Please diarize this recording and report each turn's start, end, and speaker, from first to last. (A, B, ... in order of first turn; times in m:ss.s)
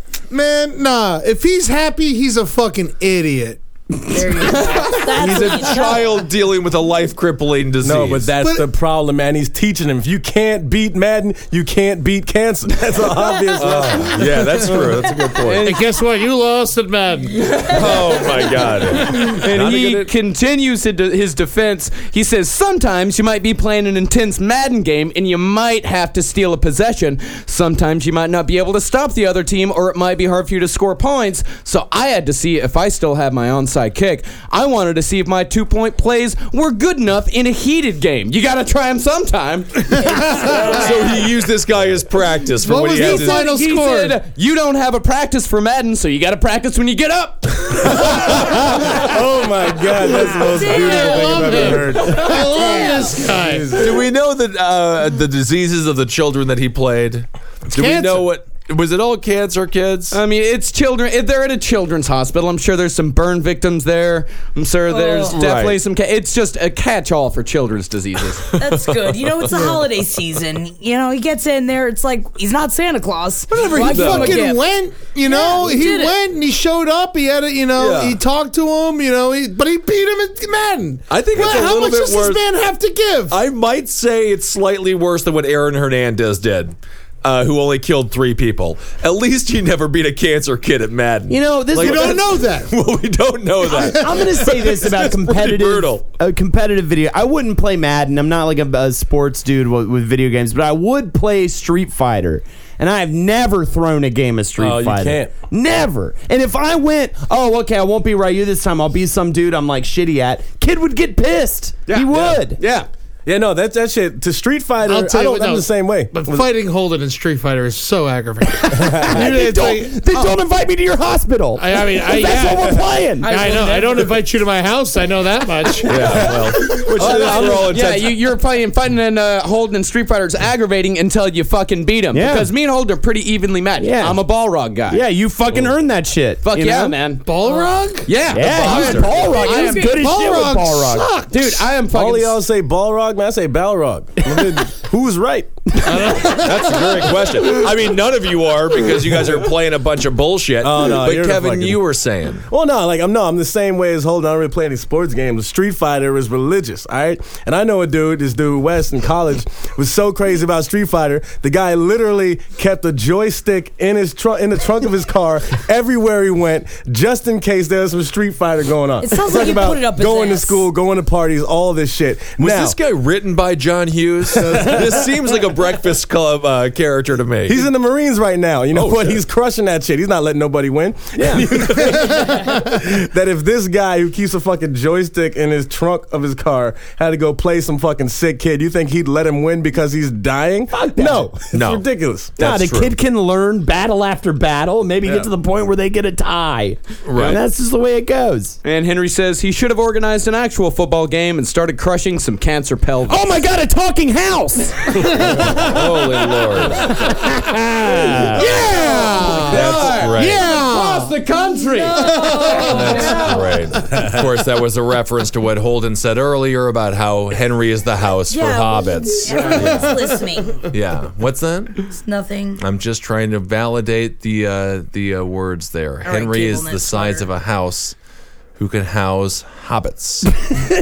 0:00.3-0:03.6 A
0:04.1-0:06.2 B
0:04.4-0:05.0 C
0:05.0-0:08.3 D
0:07.8-0:14.4 E
0:08.4-0:08.7 A
0:13.5-0:14.2 B
0:13.6-0:15.6 D
0:15.4-0:15.8 C
0:15.6-0:17.7 A
0:17.5-0:17.8 C
0:17.6-0:20.1 D
0:19.0-0:40.6 C
0:40.0-0:41.2 B
0:40.0-0:40.7 A
0:40.6-0:43.4 D
0:42.6-0:44.2 A
0:42.9-0:49.0 C
0:47.9-0:52.6 E
0:50.0-0:53.4 B
0:50.6-0:53.8 A
0:53.3-0:54.0 E
0:53.7-1:00.2 D
0:57.7-0:58.3 A
1:00.1-1:08.6 C
1:04.9-1:05.4 B
1:05.3-1:05.8 D
1:08.6-1:14.6 B
1:08.6-1:09.8 D
1:13.5-1:23.4 A
1:13.7-1:14.5 D
1:15.2-1:16.2 B
1:17.8-1:18.2 D
1:21.1-1:22.4 D
1:23.3-1:36.0 D
1:31.3-1:32.2 F
1:31.8-1:32.7 A
1:33.7-1:34.2 A
1:33.7-1:52.6 F
1:44.6-1:45.3 E
1:51.9-1:52.9 C
1:52.1-1:52.5 E
1:53.3-1:56.4 E
1:54.8-2:00.4 A
1:58.5-2:03.3 F
1:58.8-1:59.2 E
2:01.6-2:06.8 A
2:03.2-2:04.0 C
2:03.3-2:04.0 B
2:05.8-2:08.2 D
2:06.0-2:07.7 E
2:06.7-2:15.0 C
2:12.1-2:12.5 F
2:13.8-2:14.2 F
2:14.9-2:17.0 F
2:16.4-2:17.3 C
2:17.2-2:21.6 A
2:17.4-2:17.7 B
2:18.0-2:19.0 C
2:18.3-2:21.1 F
2:18.3-2:19.4 D
2:19.2-2:20.0 B
2:21.3-2:22.4 C
2:21.9-2:26.1 E
2:25.8-2:26.1 F
2:25.9-2:27.0 A
2:26.2-2:32.4 D
2:30.6-2:31.8 E
2:32.5-2:52.8 E
2:49.0-2:50.7 B
2:52.4-2:57.6 D
2:54.4-2:54.8 E
2:57.5-3:12.3 E
2:58.7-2:59.2 D
3:01.2-3:01.5 F
3:01.8-3:02.6 A
3:10.7-3:11.4 F
3:11.5-3:11.8 D
3:12.4-3:13.0 D
3:12.4-3:18.6 F
3:17.0-3:17.4 D
3:18.6-3:23.5 C
3:23.1-3:25.8 F
3:25.1-3:25.6 E
3:25.4-3:27.0 D
3:26.9-3:28.5 F
3:28.4-3:31.2 A
3:28.4-3:32.8 C
3:28.4-3:28.7 D
3:29.5-3:30.5 D
3:31.9-3:33.6 B
3:31.9-3:33.2 A
3:32.7-3:40.0 D
3:38.3-3:40.7 B
3:39.3-3:40.2 A
3:40.7-3:41.8 D
3:41.9-3:42.6 B
3:42.6-3:48.0 D
3:46.0-3:47.3 B
3:48.6-3:50.4 D